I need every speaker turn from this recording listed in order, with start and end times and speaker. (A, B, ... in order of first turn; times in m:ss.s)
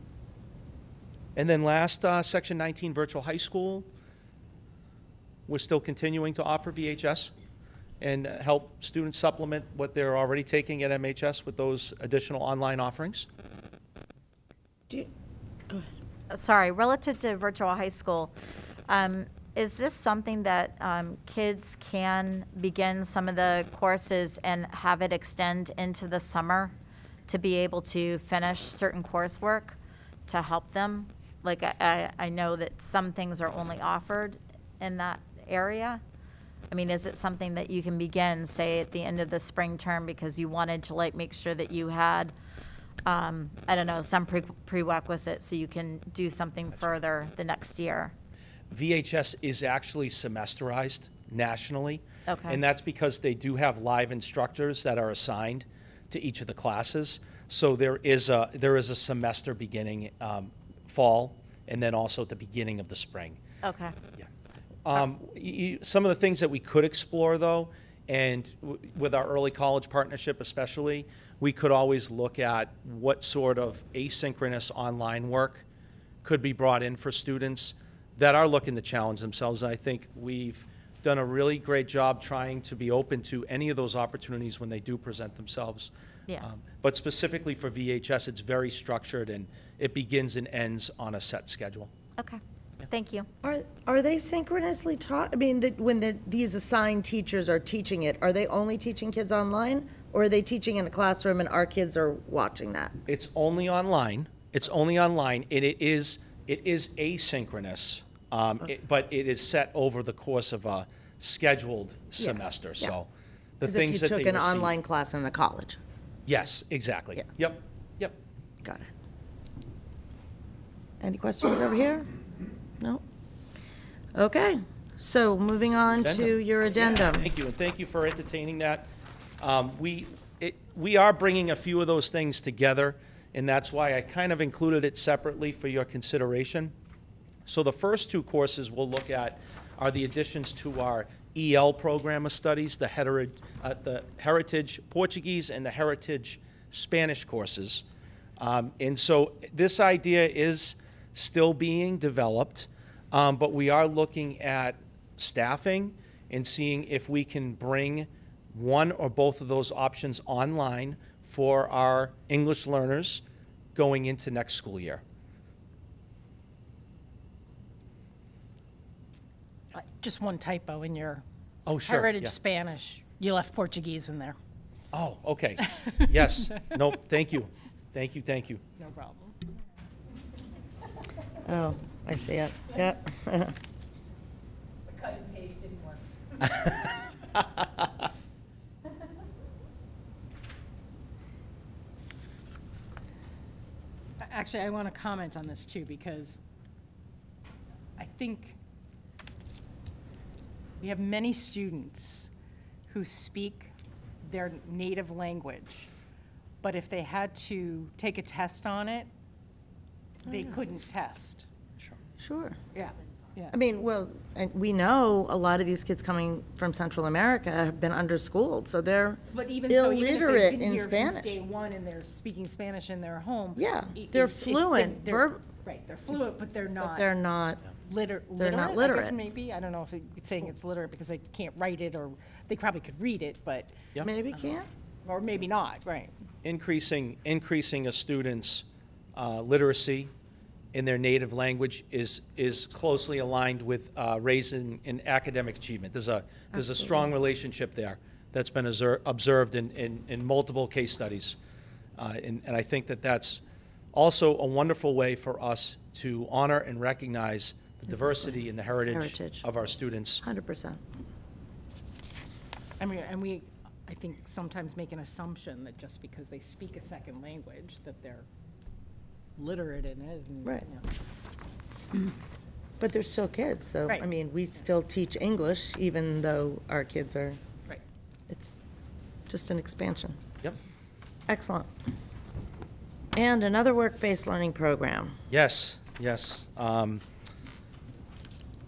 0:01.4-0:03.9 A
0:05.5-0:07.3 A
0:08.0-0:13.3 A
0:16.3-0:18.3 B
0:18.9-0:26.7 B
0:27.3-0:29.8 B
0:30.3-0:36.0 B
0:36.7-0:42.3 B
0:43.1-0:48.1 B
0:48.7-1:03.4 A
0:52.3-0:52.6 B
1:03.6-1:04.0 B
1:04.8-1:15.6 A
1:16.2-1:31.9 A
1:32.2-1:33.3 B
1:33.4-1:43.0 C
1:43.1-1:53.1 A
1:52.2-1:52.9 C
1:53.6-1:54.8 A
1:53.6-1:55.8 C
1:56.3-1:58.2 A
2:01.0-2:02.1 C
2:04.2-2:07.3 C
2:06.0-2:08.9 A
2:09.4-2:16.7 A
2:17.5-2:27.8 A
2:28.4-2:43.2 A
2:43.8-2:45.0 A
2:49.7-2:51.2 D
2:51.7-2:52.4 A
2:51.9-2:54.4 D
2:54.9-2:58.6 A
2:58.8-2:59.4 D
3:01.4-3:03.6 C
3:04.9-3:06.8 D
3:14.2-3:16.4 D
3:18.0-3:18.6 D
3:20.8-3:22.3 D
3:22.9-3:23.7 D
3:24.2-3:25.9 D
3:26.6-3:29.1 D
3:30.2-3:31.5 D
3:32.2-3:32.6 C
3:32.7-3:33.5 D
3:33.5-3:41.3 C
3:39.3-3:47.1 D
3:43.6-3:45.4 C
3:46.8-3:47.6 C
3:47.8-3:53.8 D
3:48.4-3:49.2 C
3:54.0-3:54.7 C
3:55.0-3:56.2 D
3:56.4-4:00.1 A
4:00.7-4:11.4 A
4:12.0-4:13.4 A
4:13.9-4:20.2 A
4:18.9-4:19.4 C
4:20.2-4:20.8 C
4:22.8-4:28.3 D
4:29.4-4:30.9 D
4:32.8-4:37.4 C
4:38.3-4:38.6 C
4:39.3-4:40.2 C
4:41.3-4:41.7 C
4:43.2-4:45.2 C
4:45.3-4:47.0 A